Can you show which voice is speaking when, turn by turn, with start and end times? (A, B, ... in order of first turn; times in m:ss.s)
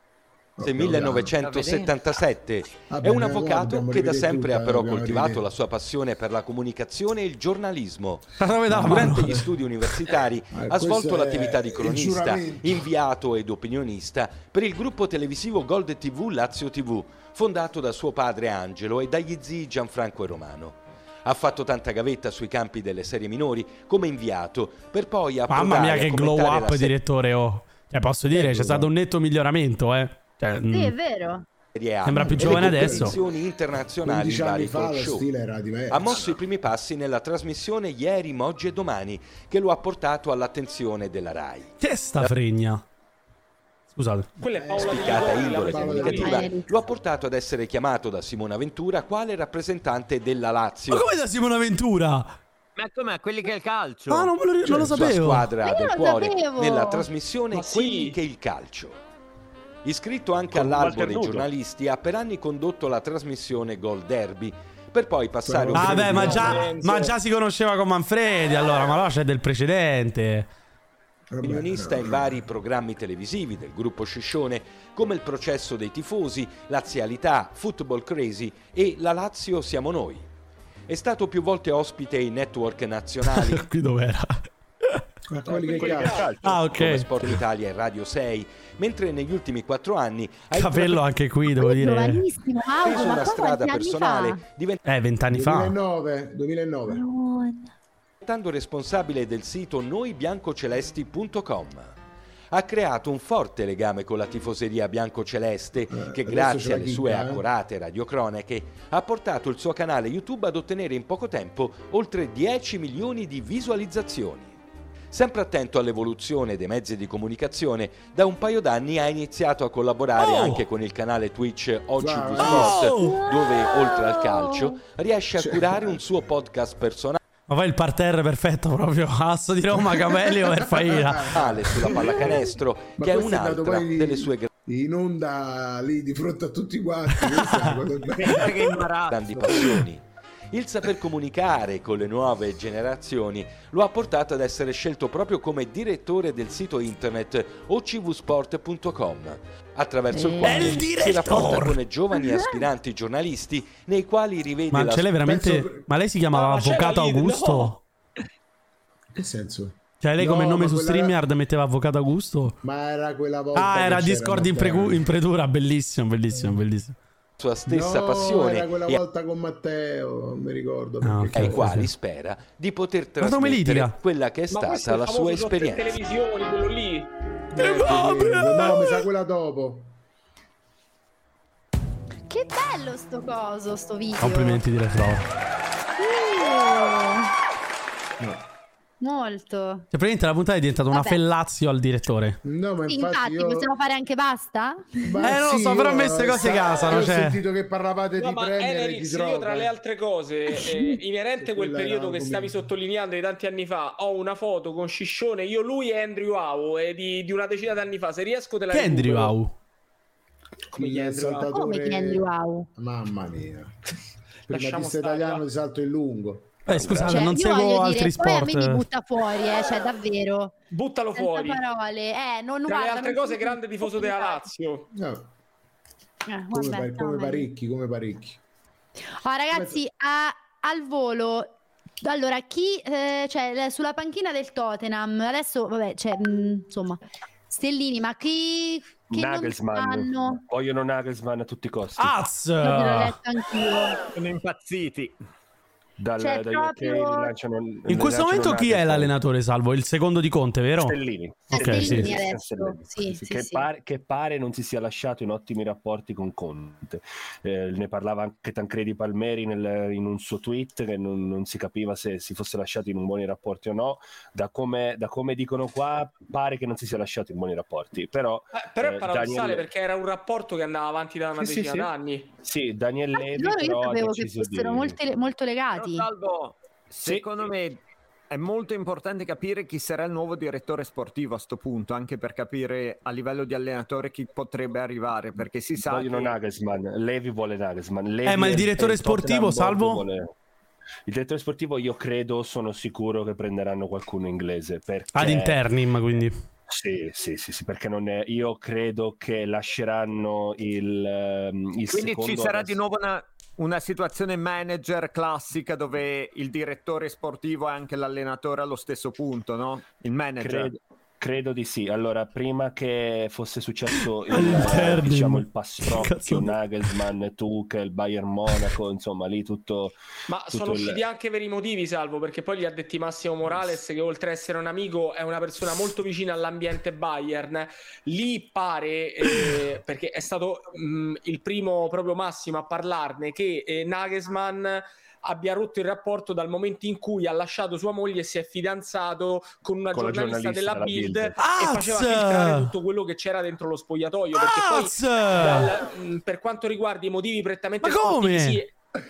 0:00.6-0:01.3 A
0:00.6-0:26.9 B
0:01.4-0:01.9 C
0:02.8-0:05.4 A
0:08.4-0:09.4 D
0:08.7-0:09.5 A
0:10.5-0:12.8 A
0:25.5-0:30.9 D
0:28.3-0:28.9 A
0:30.7-0:31.4 E
0:31.7-0:35.3 B
0:32.0-0:33.2 D
0:32.2-0:33.2 A
0:34.0-0:36.4 A
0:35.9-0:42.3 B
0:41.8-0:42.8 D
0:43.9-0:44.3 D
0:44.4-0:46.4 F
0:44.6-0:45.0 A
0:44.7-0:51.1 B
0:45.6-0:46.4 A
0:45.9-0:46.7 E
0:50.9-0:52.4 D
0:52.8-0:54.3 C
0:54.1-0:55.5 D
0:54.6-0:59.0 B
0:55.6-0:57.1 E
0:57.5-0:58.2 F
0:59.8-1:06.6 B
1:00.5-1:01.5 G
1:05.4-1:06.7 A
1:05.7-1:10.5 D
1:06.4-1:07.1 F
1:11.3-1:12.4 A
1:11.4-1:20.3 B
1:20.9-1:23.6 B
1:23.3-1:25.0 D
1:25.3-1:26.3 A
1:25.5-1:27.3 G
1:25.6-1:26.3 F
1:26.4-1:27.1 D
1:26.5-1:31.0 B
1:30.5-1:32.2 D
1:31.6-1:34.4 E
1:32.8-1:34.8 B
1:34.8-1:35.8 D
1:35.3-1:37.0 A
1:36.9-1:37.7 E
1:38.2-1:41.9 B
1:42.5-1:54.6 B
1:45.9-1:47.4 A
1:55.1-2:07.2 B
2:00.2-2:00.6 D
2:02.0-2:02.9 A
2:02.4-2:03.2 D
2:03.0-2:04.7 E
2:05.4-2:06.3 A
2:07.5-2:11.3 D
2:09.9-2:12.4 A
2:11.3-2:14.5 B
2:13.0-2:18.7 A
2:17.3-2:17.8 D
2:18.1-2:19.4 C
2:19.1-2:35.2 B
2:19.4-2:19.6 A
2:30.1-2:30.6 E
2:30.4-2:31.8 D
2:32.2-2:32.6 E
2:34.7-2:37.8 D
2:35.2-2:35.9 A
2:36.3-2:37.8 F
2:39.1-2:41.2 A
2:40.0-2:42.6 D
2:42.6-2:45.1 A
2:43.6-2:47.0 D
2:47.4-2:49.0 B
2:47.6-2:51.7 A
2:51.0-2:51.9 D
2:51.3-2:56.0 B
2:53.2-2:54.0 D
2:54.5-2:57.1 F
2:57.5-2:59.9 A
2:57.6-2:59.0 D
3:02.3-3:04.6 E
3:04.2-3:05.3 D
3:06.0-3:07.3 E
3:09.0-3:09.9 E
3:09.9-3:12.4 D
3:10.9-3:11.2 E
3:12.4-3:13.7 A
3:12.8-3:15.2 E
3:15.0-3:19.7 A
3:15.2-3:17.4 D
3:18.2-3:29.4 F
3:21.4-3:22.6 A
3:28.7-3:29.5 D
3:30.7-3:33.8 A
3:30.7-3:31.5 F
3:31.5-3:32.7 E
3:34.5-3:35.4 F
3:34.5-3:36.6 A
3:36.6-3:38.8 D
3:36.7-3:37.3 G
3:36.9-3:40.6 E
3:40.7-3:41.6 F
3:41.2-3:44.4 E
3:42.7-3:44.9 F
3:44.9-3:45.3 A
3:46.3-3:47.5 E
3:46.5-3:48.4 A
3:49.2-4:00.4 E
3:49.5-3:49.8 A
3:59.1-4:02.2 G
4:02.0-4:03.2 D
4:02.6-4:04.0 E
4:04.1-4:05.1 C
4:06.0-4:09.2 G
4:06.2-4:07.3 E
4:07.9-4:11.0 D
4:10.8-4:29.7 G
4:11.5-4:13.7 E
4:11.5-4:12.1 D
4:28.5-4:32.3 F
4:31.4-4:31.9 G
4:32.4-4:35.0 G
4:33.1-4:36.1 E
4:35.7-4:46.3 C
4:37.0-4:37.3 G
4:45.8-4:50.3 G
4:48.3-4:50.0 D
4:51.1-4:55.7 G
4:55.1-4:56.4 D
4:56.7-5:02.8 G
5:01.9-5:10.7 C
5:10.4-5:20.0 G
5:14.3-5:16.6 D
5:20.3-5:48.7 F
5:20.5-5:21.0 G
5:39.9-5:41.4 G
5:41.4-5:42.7 D
5:44.3-5:45.7 D
5:47.8-5:48.6 D